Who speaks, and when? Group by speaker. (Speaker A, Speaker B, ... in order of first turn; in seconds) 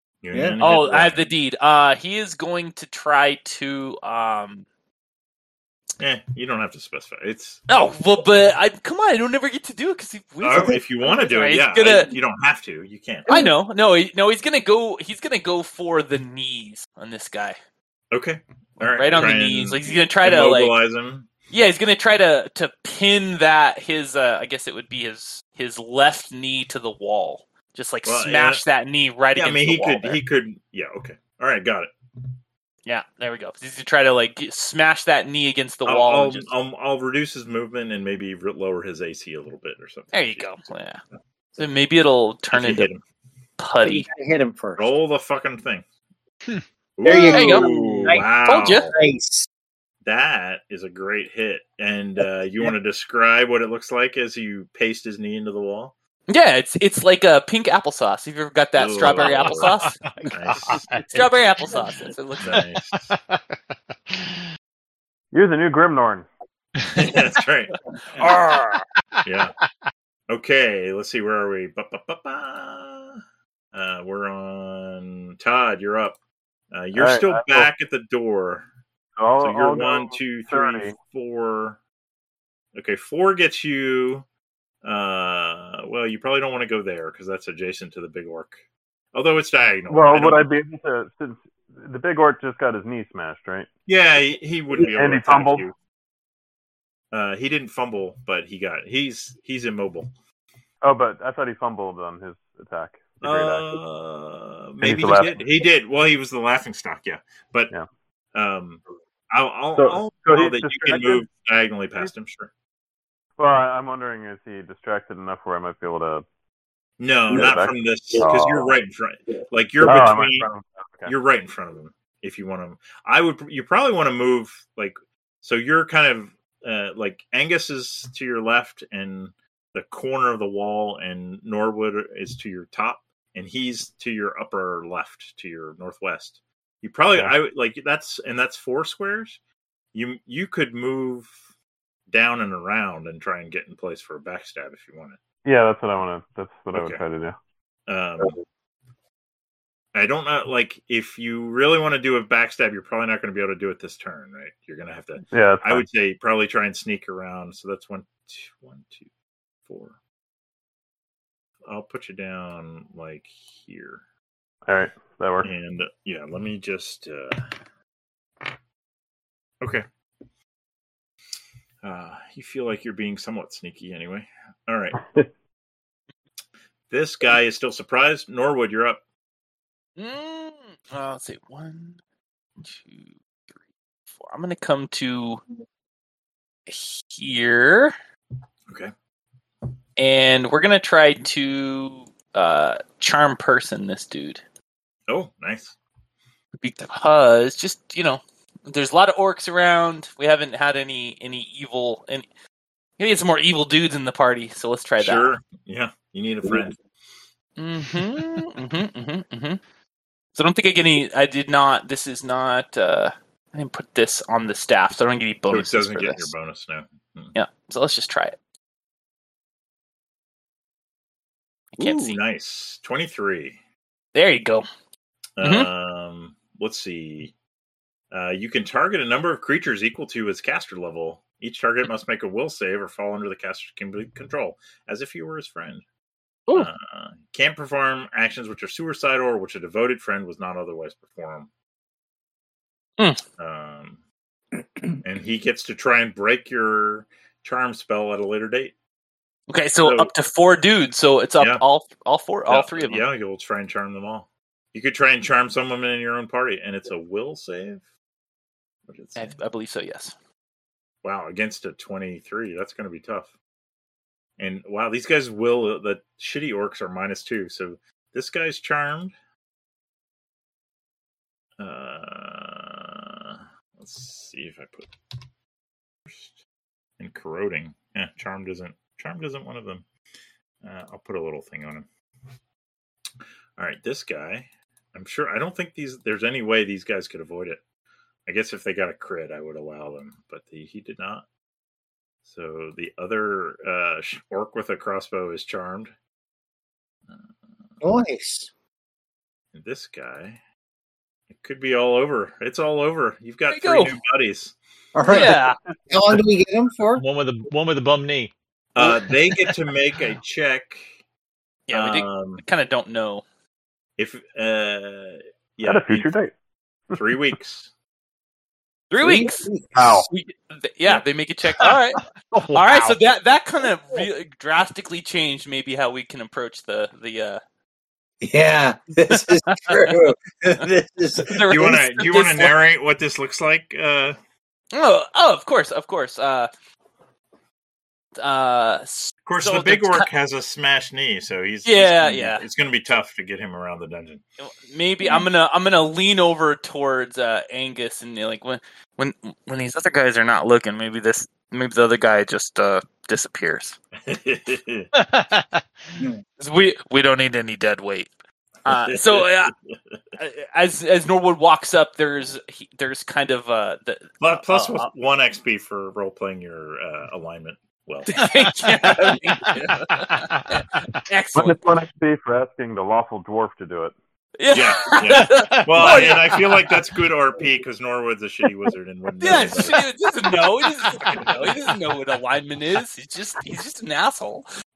Speaker A: 0.2-1.3, 6.0-7.6, 10.4-13.4, 18.1-21.3, 28.0-28.6, 29.4-31.9, 35.8-40.5, 42.5-43.0, 44.8-45.8, 47.0-48.9, 50.0-55.9, 58.8-60.9, 62.4-63.1, 66.8-68.2, 69.2-69.5, 70.3-73.2, 73.7-76.2, 76.7-78.7, 79.4-81.8, 82.7-84.2, 84.8-88.5, 89.1-90.5, 93.9-95.7, 97.1-100.1, 103.2-107.7, 108.3-112.5, 117.0-120.5, 121.0-139.4, 139.9-141.3, 142.1-145.2, 146.7-147.0, 147.9-148.4, 149.9-159.1, 159.7-160.0, 161.7-164.0, 165.4-167.5, 171.8-175.0, 176.9-179.0, 195.1-195.8, 205.0-206.8, 215.5-217.3, 221.8-223.6, 225.4-227.3, 228.1-235.8, 236.5-241.5, 243.4-244.0, 245.0-248.7, 249.8-250.1, 252.5-257.8, 258.9-259.4, 261.0-263.3, 264.4-269.1, 271.6-274.9, 276.1-276.4, 277.0-279.8, 280.6-281.9, 283.6-287.6, 288.2-291.2, 292.2-295.9, 299.5-300.4, 301.3-304.6, 308.7-311.0, 311.7-312.4, 314.0-316.1, 316.9-317.7, 331.5-334.1, 339.3-344.2, 354.1-354.9, 358.7-359.7, 364.2-369.6, 374.5-379.9, 381.0-381.5
Speaker B: 0.3-0.6, 10.5-10.8, 43.8-44.9, 47.0-48.3, 48.9-49.5, 297.8-298.5, 304.9-307.0, 319.0-320.0, 328.2-331.7
Speaker C: 0.6-4.7, 7.7-12.1, 13.3-17.6, 18.8-20.8, 21.5-30.2, 32.9-36.5, 40.1-41.0, 41.6-42.9, 43.6-44.1, 47.3-48.9, 56.3-60.0, 61.0-62.6, 68.2-68.8, 180.0-182.0, 182.6-183.6, 184.1-185.4, 186.7-187.9, 190.0-194.4, 196.6-202.2, 203.0-205.3, 207.6-209.6, 210.3-216.3, 217.3-218.3, 221.8-222.2, 224.1-224.7, 225.4-225.7, 249.5-253.0, 259.1-260.1, 303.5-303.9, 305.1-305.6, 311.7-313.2, 318.9-327.4, 329.1-330.0, 331.2-332.5, 334.7-336.5, 338.2-340.1, 341.6-342.4, 344.4-353.8, 356.4-358.1, 358.6-359.5, 360.2-364.9, 368.1-371.6, 374.4-376.5, 379.2-384.4
Speaker D: 59.2-61.8, 63.1-64.4, 69.1-69.9, 306.9-309.5, 322.3-323.0, 354.9-355.7, 369.4-370.6, 374.9-376.2
Speaker E: 65.3-66.2, 76.9-77.7, 79.2-81.0, 89.9-93.7, 94.8-95.6, 100.8-103.8, 104.8-105.4, 109.7-111.2, 113.4-116.2, 117.3-118.7, 119.8-121.1, 145.4-147.3, 155.3-155.8, 164.7-165.5, 315.6-316.3, 319.7-320.1, 371.3-373.9